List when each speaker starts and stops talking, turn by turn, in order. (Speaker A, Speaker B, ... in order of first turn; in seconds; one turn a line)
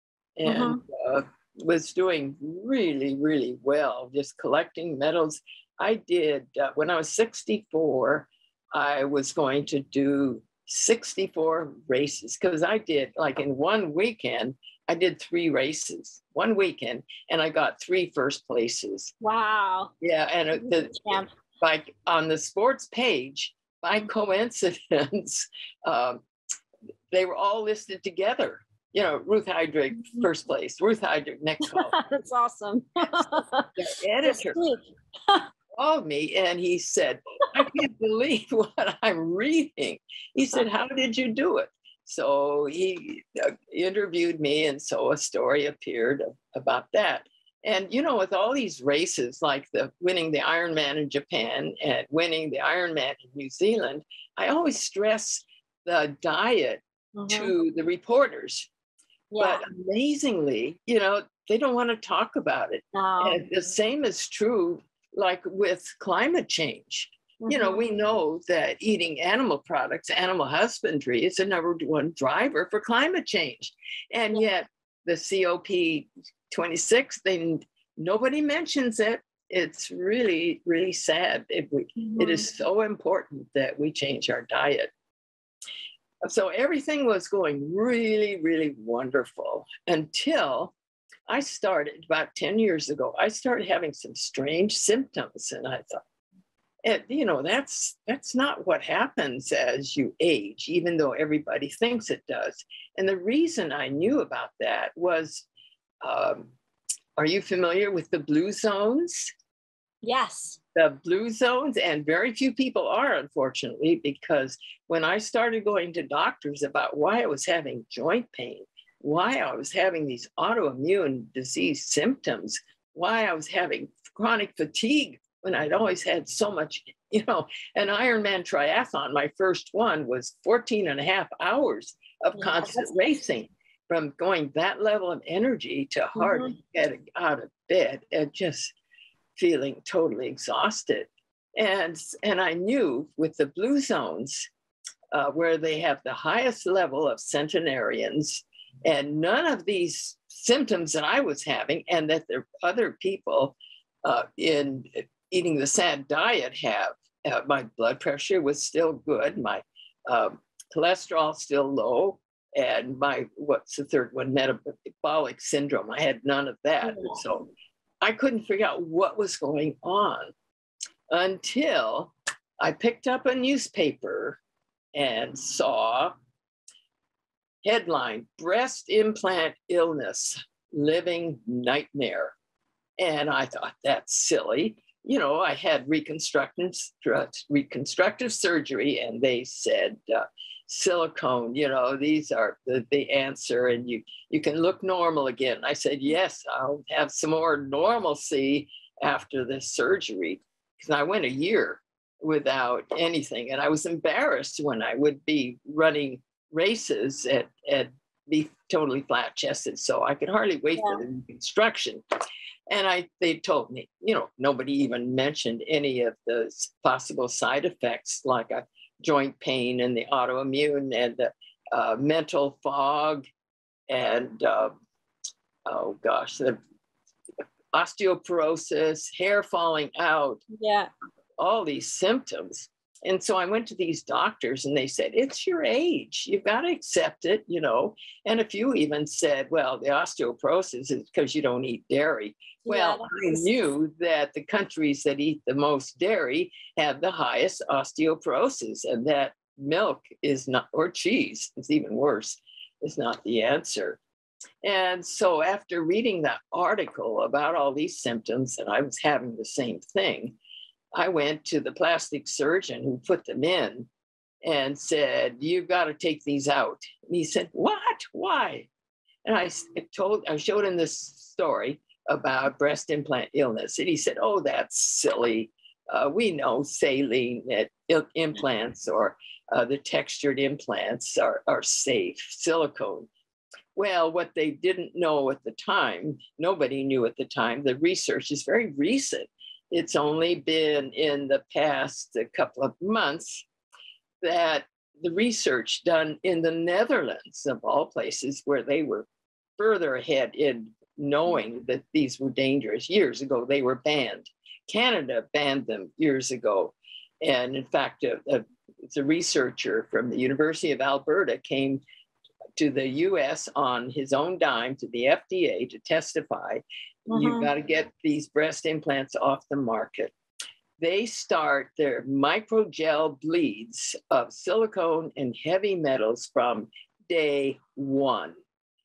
Speaker A: 0.4-19.1
Speaker B: 0.5-0.8
Speaker B: 19.2-19.9
Speaker A: 20.0-26.2
Speaker B: 20.6-21.3
Speaker A: 27.1-31.9
Speaker B: 31.6-35.5
Speaker A: 33.8-34.6
Speaker A: 35.7-58.7
Speaker B: 57.1-57.5
Speaker B: 59.3-59.6
Speaker A: 59.4-84.9
Speaker B: 62.9-63.4
Speaker B: 67.4-67.8
Speaker B: 82.0-82.4
Speaker A: 86.2-90.8
Speaker A: 91.3-96.0
Speaker A: 96.8-105.5
Speaker A: 106.0-106.5
Speaker A: 107.2-109.3
Speaker B: 110.0-110.6
Speaker A: 110.8-138.8
Speaker B: 132.4-133.0
Speaker B: 136.2-136.5
Speaker A: 139.4-144.5
Speaker A: 145.1-167.5
Speaker B: 166.8-167.2
Speaker A: 168.0-170.3
Speaker A: 171.1-174.4
Speaker A: 174.9-176.1
Speaker A: 177.6-182.3
Speaker A: 183.0-212.0
Speaker B: 210.8-211.0
Speaker A: 212.7-223.2
Speaker A: 223.9-224.7
Speaker A: 225.7-226.6
Speaker A: 227.7-230.4
Speaker B: 230.5-230.9
Speaker A: 231.4-254.0
Speaker B: 242.7-243.5
Speaker A: 254.6-260.4
Speaker A: 260.9-263.9
Speaker A: 264.4-268.7
Speaker A: 269.2-283.1
Speaker A: 283.8-293.5
Speaker A: 294.2-311.8
Speaker A: 312.6-320.1
Speaker B: 317.1-317.5
Speaker A: 320.8-328.4